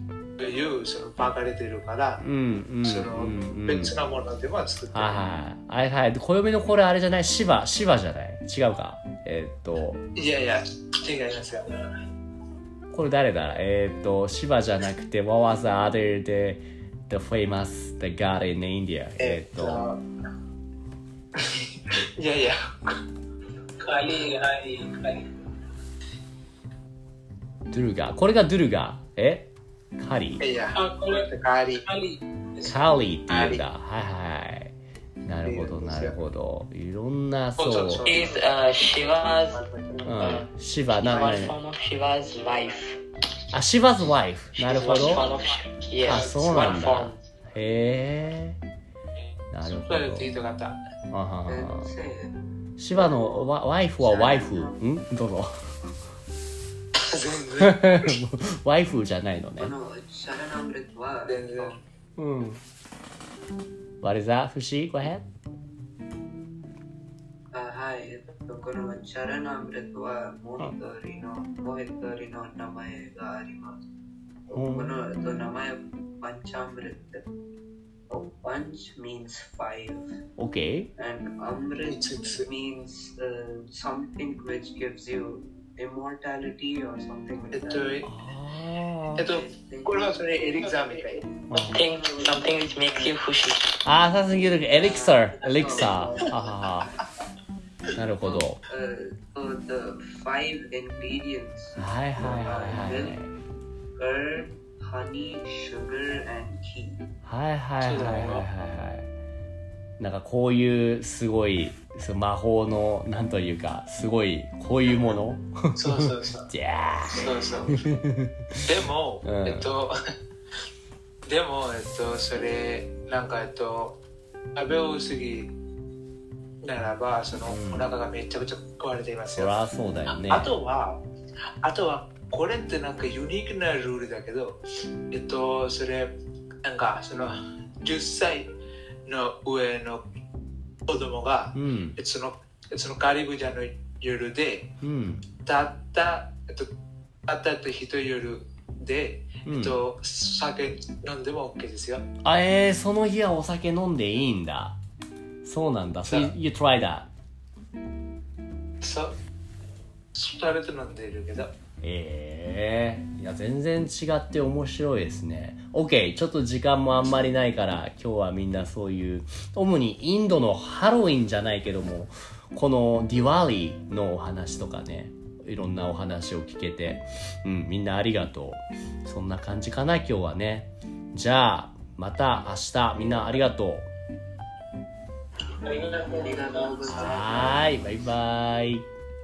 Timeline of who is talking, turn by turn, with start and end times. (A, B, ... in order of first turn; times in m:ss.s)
0:00.4-0:02.2 A
0:02.2-0:03.9 B
0:02.8-0:05.2 A
0:04.9-0:10.0 B
0:10.2-0:11.8 A
0:12.9-0:19.8 B
0:19.2-0:20.0 A
0:21.4-0:22.9 A
0:23.8-0:25.3 C
0:27.7-0:30.4 B
0:30.4-0:31.8 A
0:30.7-0:31.3 C
0:31.8-0:33.0 C
0:32.6-0:38.1 B
0:33.3-0:33.6 A
0:35.4-0:36.1 A
0:37.6-0:40.3 A
0:38.0-0:40.4 D
0:40.0-0:41.6 B
0:41.0-0:43.0 D
0:43.5-0:45.3 B
0:44.5-0:47.2 D
0:46.0-0:48.6 B
0:46.0-0:46.9 A
0:49.5-0:50.3 B
0:49.7-0:50.8 A
0:51.1-0:51.9 B
0:51.5-0:52.3 E
0:52.8-0:55.6 B
0:52.9-0:54.8 E
0:57.0-0:58.1 A
0:57.6-0:59.7 B
0:59.6-1:01.8 E
1:01.3-1:01.8 A
1:02.2-1:02.6 B
1:04.0-1:05.2 B
1:07.5-1:13.8 E
1:14.5-1:14.9 B
1:14.5-1:17.3 E
1:18.1-1:20.0 E
1:20.4-1:20.9 B
1:21.0-1:28.0 E
1:21.8-1:22.4 A
1:27.5-1:28.1 A
1:28.0-1:29.2 B
1:29.2-1:33.1 E
1:29.2-1:31.2 A
1:31.5-1:31.8 B
1:31.7-1:33.8 D
1:33.8-1:36.9 B
1:34.7-1:36.5 E
1:37.9-1:38.6 B
1:38.2-1:43.2 E
1:41.8-1:43.3 B
1:43.9-1:47.0 E
1:47.2-1:49.1 B
1:47.8-1:48.4 A
1:50.0-1:58.7 B
1:55.8-1:56.5 A
1:57.1-1:57.8 A
1:58.6-1:59.9 A
1:59.2-1:59.7 B
2:01.2-2:04.0 A
2:04.5-2:05.5 A
2:06.6-2:09.6 A
2:07.5-2:07.9 B
2:09.3-2:10.5 B
2:10.1-2:11.0 A
2:11.6-2:16.1 A
2:16.6-2:18.5 A
2:19.0-2:20.0 A
2:20.9-2:24.7 A
2:21.5-2:22.0 B
2:24.8-2:25.2 B
2:25.4-2:26.7 A
2:27.3-2:32.0 A
2:29.4-2:29.8 B
2:32.2-2:34.8 B
2:35.4-2:37.1 B
2:36.1-2:36.3 A
2:38.8-2:39.2 A
2:40.1-2:41.5 A
2:41.8-3:03.9 B
3:05.6-3:07.4 C
3:06.0-3:07.7 E
3:07.0-3:08.9 B